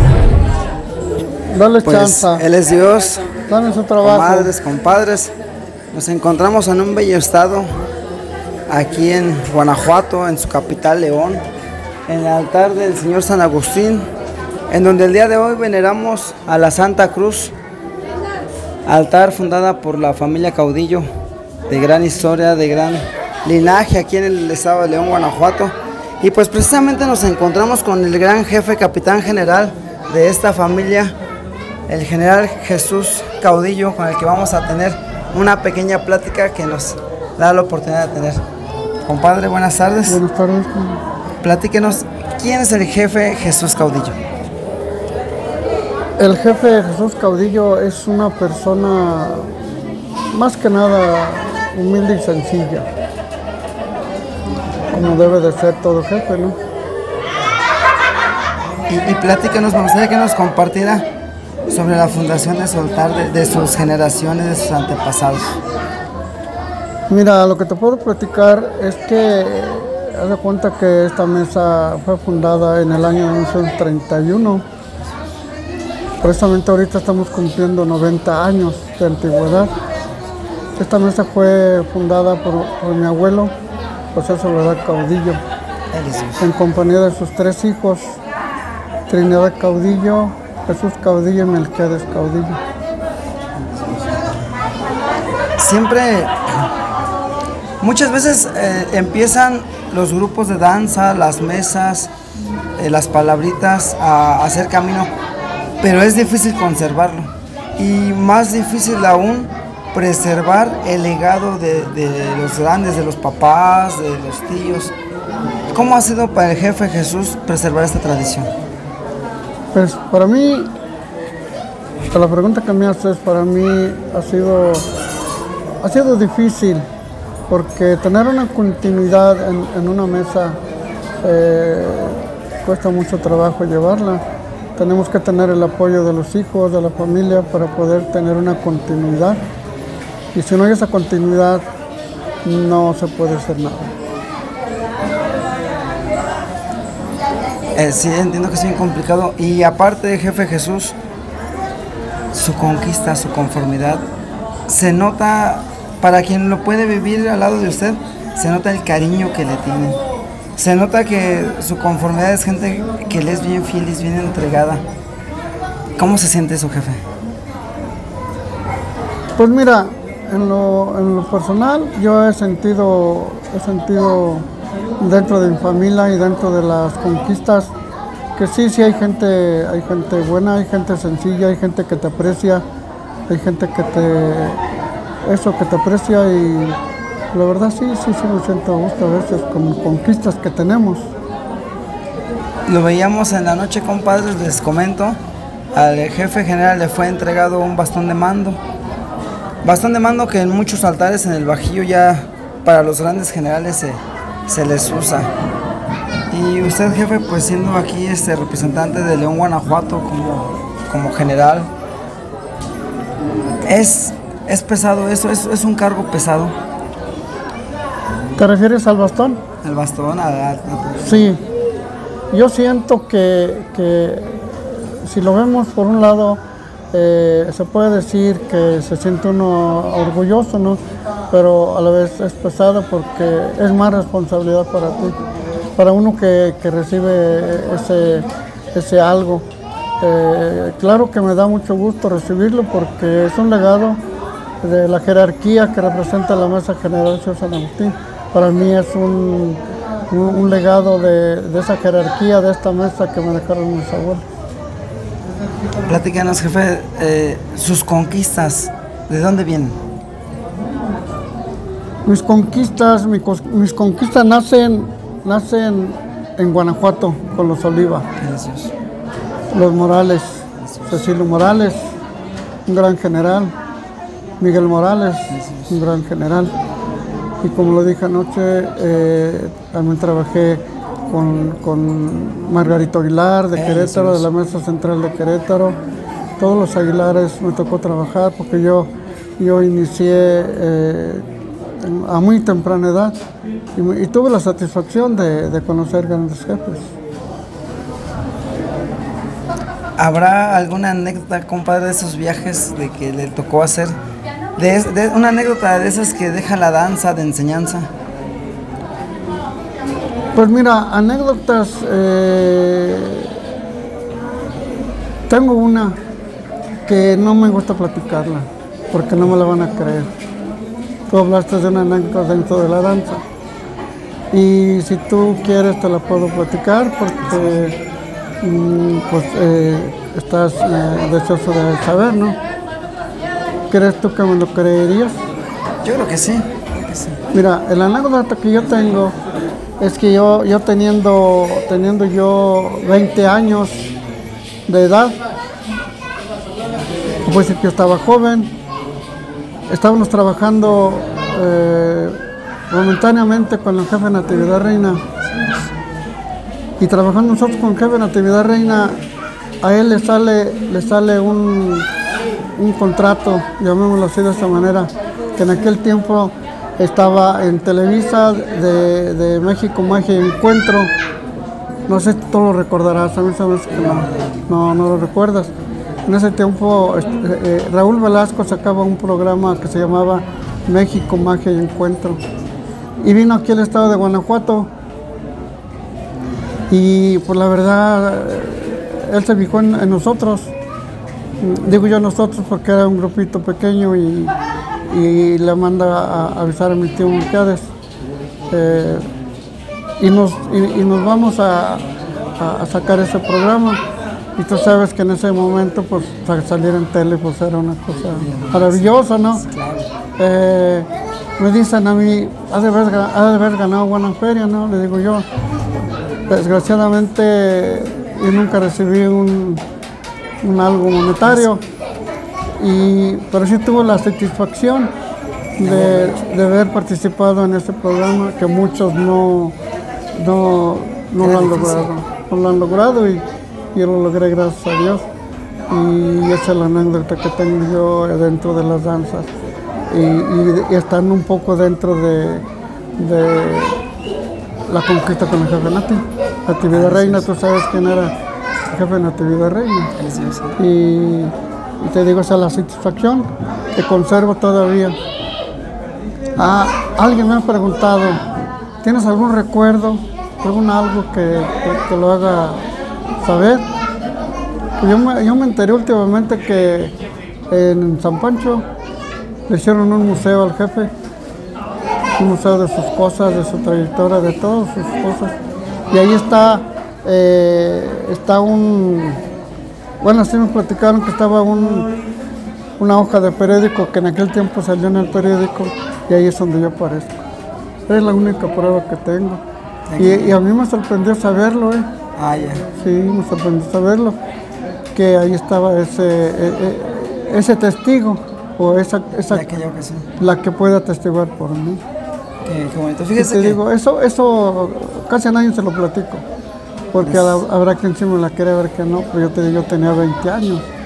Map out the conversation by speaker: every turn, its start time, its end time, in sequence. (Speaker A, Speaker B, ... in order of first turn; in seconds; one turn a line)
Speaker A: 1.5-2.5
Speaker B: 1.8-3.3
Speaker A: 3.5-4.5
Speaker B: 4.0-5.3
Speaker B: 5.9-7.8
Speaker B: 8.7-11.4
Speaker B: 12.1-14.1
Speaker B: 14.7-17.5
Speaker B: 18.9-21.1
Speaker B: 21.7-31.1
Speaker B: 31.9-38.4
Speaker B: 39.0-40.2
Speaker A: 40.1-41.0
Speaker B: 41.4-44.2
Speaker A: 46.2-49.6
Speaker A: 50.3-52.9
Speaker A: 54.9-56.6
Speaker B: 58.9-61.0
Speaker B: 61.7-65.6
Speaker A: 67.1-74.7
Speaker A: 76.2-79.7
Speaker A: 80.8-83.5
Speaker A: 84.1-85.4
Speaker B: 85.9-86.5
Speaker A: 86.4-88.2
Speaker A: 89.1-92.6
Speaker B: 93.6-94.2
Speaker B: 95.6-96.4
Speaker B: 97.8-102.1
Speaker B: 102.8-105.1
Speaker B: 105.8-114.9
Speaker B: 115.7-118.5
Speaker A: 119.7-120.7
Speaker A: 122.1-124.9
Speaker A: 125.8-126.9
Speaker A: 127.5-130.6
Speaker A: 131.2-134.2
Speaker A: 134.8-139.4
Speaker A: 140.3-141.7
Speaker A: 142.4-143.9
Speaker B: 147.8-151.0
Speaker B: 152.3-154.0
Speaker B: 154.7-160.0
Speaker B: 160.6-164.8
Speaker B: 166.0-167.0
Speaker A: 169.4-174.5
Speaker A: 175.0-177.7
Speaker A: 178.4-182.6
Speaker A: 183.3-184.6
Speaker A: 185.2-186.8
Speaker A: 187.3-191.1
Speaker B: 192.7-195.2
Speaker B: 195.7-198.6
Speaker B: 199.6-205.3
Speaker B: 206.3-211.7
Speaker B: 213.7-216.6
Speaker A: 218.4-219.4
Speaker B: 219.6-221.3
Speaker A: 221.0-221.4
Speaker A: 222.3-226.4
Speaker A: 226.9-230.8
Speaker A: 231.3-235.2
Speaker A: 235.8-239.4
Speaker A: 240.0-244.0
Speaker A: 244.6-254.2
Speaker B: 255.9-259.8
Speaker A: 262.1-268.1
Speaker B: 268.2-268.7
Speaker A: 269.5-271.9
Speaker B: 270.6-271.0
Speaker A: 272.7-273.6
Speaker A: 274.4-276.5
Speaker B: 275.3-275.8
Speaker A: 277.4-285.8
Speaker B: 283.6-284.3
Speaker A: 286.4-293.2
Speaker A: 293.8-296.9
Speaker B: 300.0-304.0
Speaker B: 304.6-307.9
Speaker A: 310.4-313.5
Speaker A: 315.3-316.0
Speaker A: 316.9-320.1
Speaker A: 321.1-323.2
Speaker A: 324.3-327.8
Speaker A: 328.4-332.4
Speaker A: 333.7-335.2
Speaker B: 335.8-337.2
Speaker A: 337.3-339.1
Speaker A: 339.8-343.8
Speaker A: 344.7-345.2
Speaker A: 347.2-348.6
Speaker A: 349.7-352.2
Speaker A: 352.7-355.1
Speaker A: 356.8-359.0
Speaker A: 359.6-361.9
Speaker A: 362.6-370.9
Speaker A: 371.9-375.5
Speaker A: 376.1-382.2
Speaker A: 383.0-384.7
Speaker A: 386.7-390.5
Speaker A: 391.4-394.4
Speaker A: 394.9-397.7
Speaker A: 398.5-399.1
Speaker A: 400.0-401.9
Speaker A: 402.4-403.8
Speaker A: 404.4-409.4
Speaker B: 407.9-409.9
Speaker A: 410.2-415.3
Speaker A: 416.3-419.6
Speaker A: 420.4-421.6
Speaker A: 422.6-424.9
Speaker A: 425.6-429.6
Speaker B: 425.6-426.2
Speaker A: 430.1-433.2
Speaker B: 431.2-431.9
Speaker A: 433.8-435.1
Speaker A: 435.7-439.3
Speaker A: 439.9-442.5
Speaker A: 443.0-443.8
Speaker A: 444.7-448.1
Speaker B: 446.7-447.3
Speaker A: 448.7-449.9
Speaker B: 450.0-450.6
Speaker A: 450.6-455.0
Speaker A: 456.4-458.2
Speaker A: 458.8-462.6
Speaker A: 463.2-463.7
Speaker A: 464.8-466.9
Speaker A: 467.5-468.6
Speaker A: 469.5-470.9
Speaker A: 472.2-475.4
Speaker A: 475.9-479.2
Speaker A: 480.0-481.9
Speaker A: 482.8-487.2
Speaker A: 487.9-489.4
Speaker B: 489.9-490.4
Speaker A: 490.0-491.9
Speaker B: 492.2-492.7
Speaker A: 492.7-494.2
Speaker A: 494.9-499.5
Speaker B: 499.3-500.1
Speaker A: 500.2-501.8
Speaker B: 502.4-503.6
Speaker A: 503.2-506.2
Speaker A: 506.9-510.6
Speaker B: 507.0-507.4